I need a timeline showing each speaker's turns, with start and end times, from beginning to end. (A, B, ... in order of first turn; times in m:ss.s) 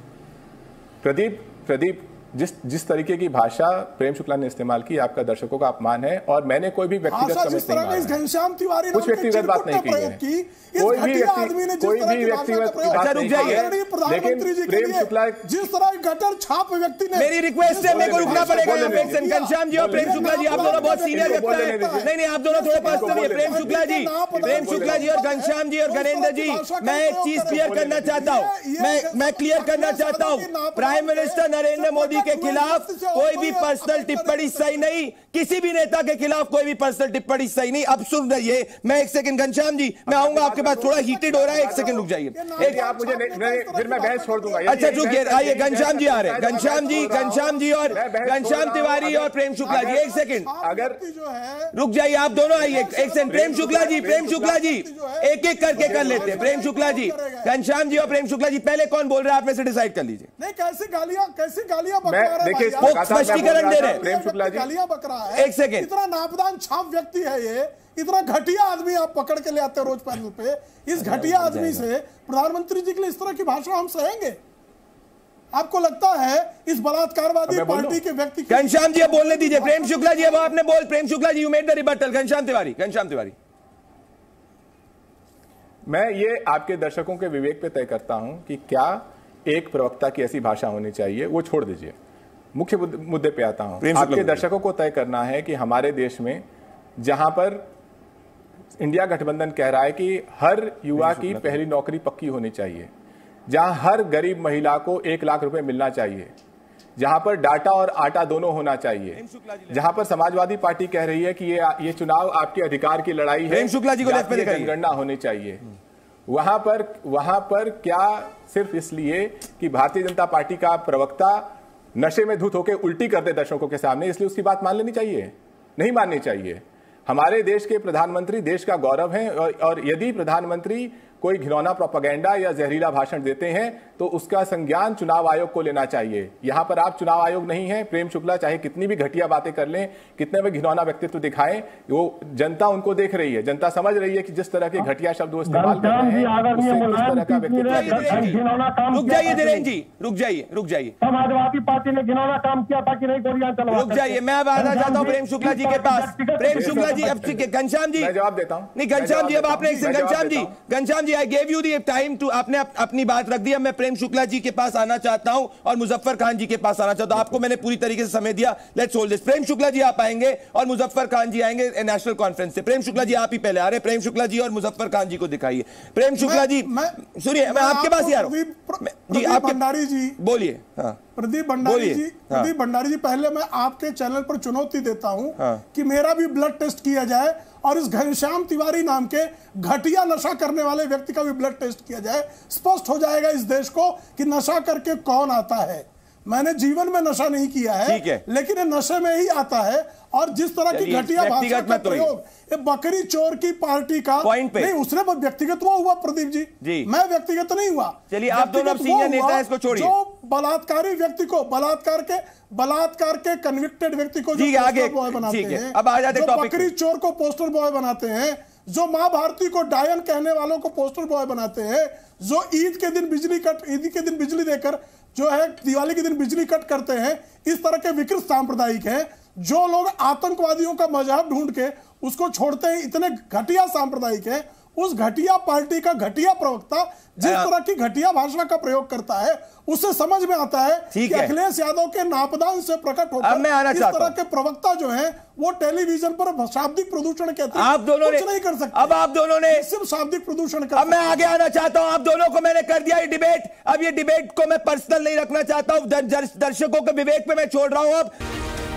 0:01.0-0:08.2 A
0:07.1-0:34.9 B
0:08.9-0:10.2 A
0:10.8-0:15.6 A
0:12.9-0:13.6 C
0:17.1-0:42.8 C
0:17.8-0:22.1 A
0:22.8-0:23.8 A
0:24.3-0:25.2 A
0:27.5-0:28.3 A
0:40.1-0:50.0 A
0:40.6-0:45.1 B
0:44.6-0:50.5 C
0:46.9-0:48.0 B
0:49.6-0:51.8 B
0:50.6-0:51.0 A
0:51.7-1:00.3 C
0:52.4-0:57.5 B
0:53.3-0:54.4 A
0:55.8-0:56.6 A
1:00.4-1:14.4 B
1:02.1-1:04.7 A
1:02.8-1:04.0 C
1:05.3-1:05.9 C
1:11.0-1:11.8 C
1:15.5-1:20.5 B
1:17.5-1:18.0 A
1:18.5-1:23.3 C
1:25.9-1:31.9 A
1:32.5-1:36.4 A
1:33.8-1:34.4 C
1:37.0-1:37.6 A
1:38.8-1:42.9 A
1:41.0-1:41.6 C
1:43.5-1:46.3 A
1:47.0-1:55.6 A
1:49.1-1:49.8 C
1:53.5-1:54.7 C
1:56.3-2:01.4 A
2:02.0-2:28.4 A
2:25.4-2:29.7 D
2:27.6-2:30.9 C
2:31.0-2:37.3 D
2:33.7-2:38.1 C
2:36.5-2:40.5 A
2:38.7-2:59.6 C
2:39.6-2:39.9 B
2:56.2-3:00.2 B
3:00.2-3:01.0 C
3:01.2-4:11.3 B
3:01.6-3:02.5 C
3:05.4-3:05.6 C
3:17.8-3:18.2 C
3:20.7-3:22.1 C
3:24.2-3:24.7 C
3:26.6-3:26.9 C
3:28.1-3:29.9 C
3:34.3-3:36.7 C
3:57.2-3:57.5 C
4:00.9-4:01.3 C
4:03.2-4:04.1 C
4:07.5-4:09.6 C
4:10.8-4:18.1 C